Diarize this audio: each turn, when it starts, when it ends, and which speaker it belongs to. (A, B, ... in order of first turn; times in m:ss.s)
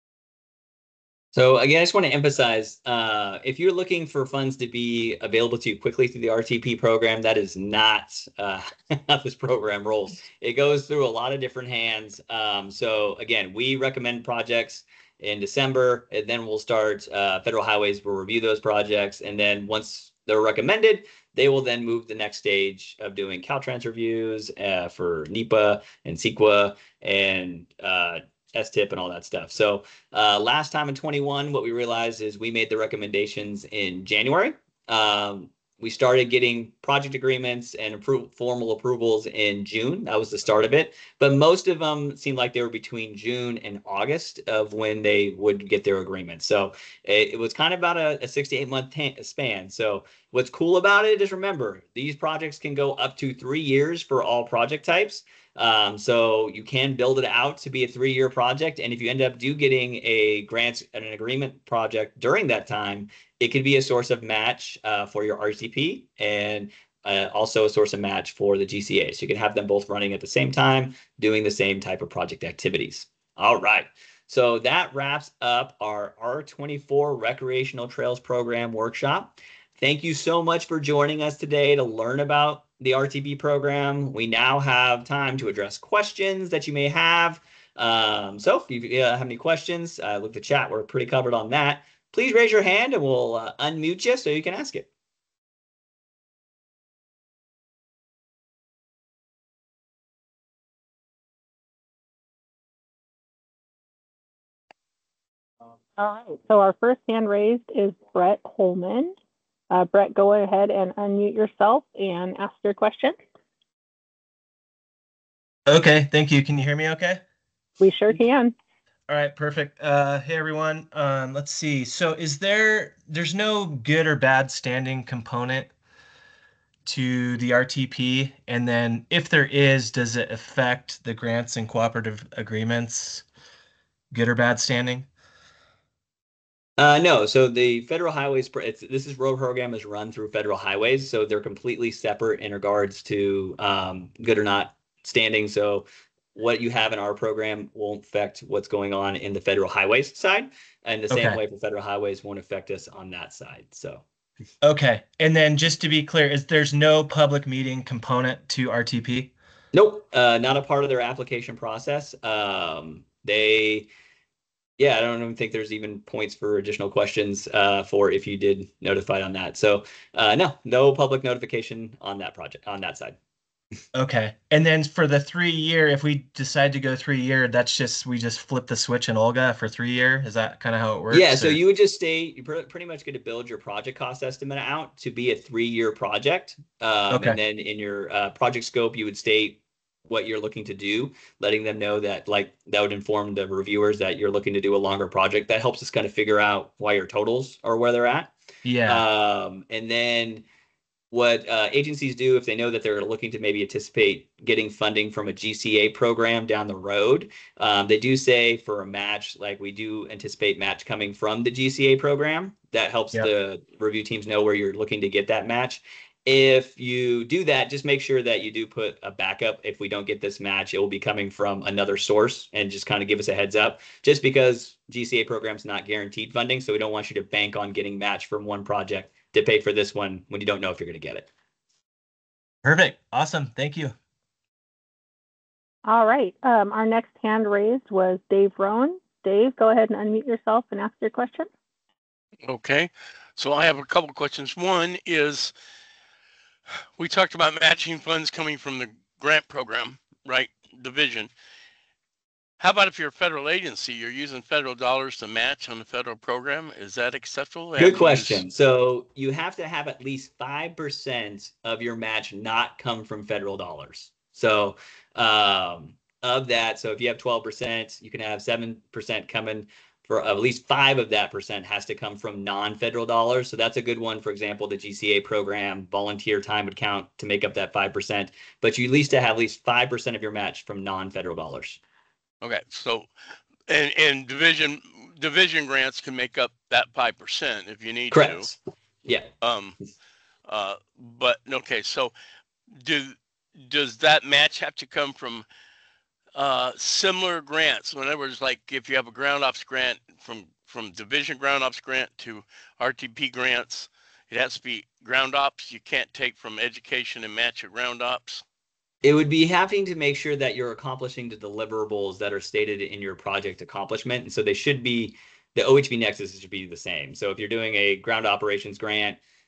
0:01.3-1:34.9 A
1:46.0-1:49.1 B
1:49.7-1:53.1 B
1:55.7-1:57.2 C
1:57.8-1:58.5 B
1:59.1-2:05.7 C
2:06.8-2:13.2 C
2:14.1-2:15.1 C
2:16.8-2:34.0 A
2:31.1-2:31.4 C
2:34.6-2:39.3 C
2:39.7-2:43.9 A
2:44.8-2:53.2 A
2:53.9-3:01.6 C
3:01.1-3:18.3 A
3:07.1-3:07.4 C
3:18.6-3:19.0 C
3:18.8-3:20.4 A
3:21.1-3:51.3 A
3:52.6-3:53.9 C
3:55.8-4:01.5 B
4:02.4-4:05.5 D
4:07.0-4:11.3 D
4:12.6-4:18.4 D
4:17.8-4:41.8 A
4:42.4-4:43.1 D
4:43.7-4:48.5 D
4:48.1-4:49.3 A
4:49.4-4:49.8 D
4:50.4-4:52.1 D
4:52.7-4:55.4 D
4:56.3-5:08.4 D
5:09.0-5:19.2 A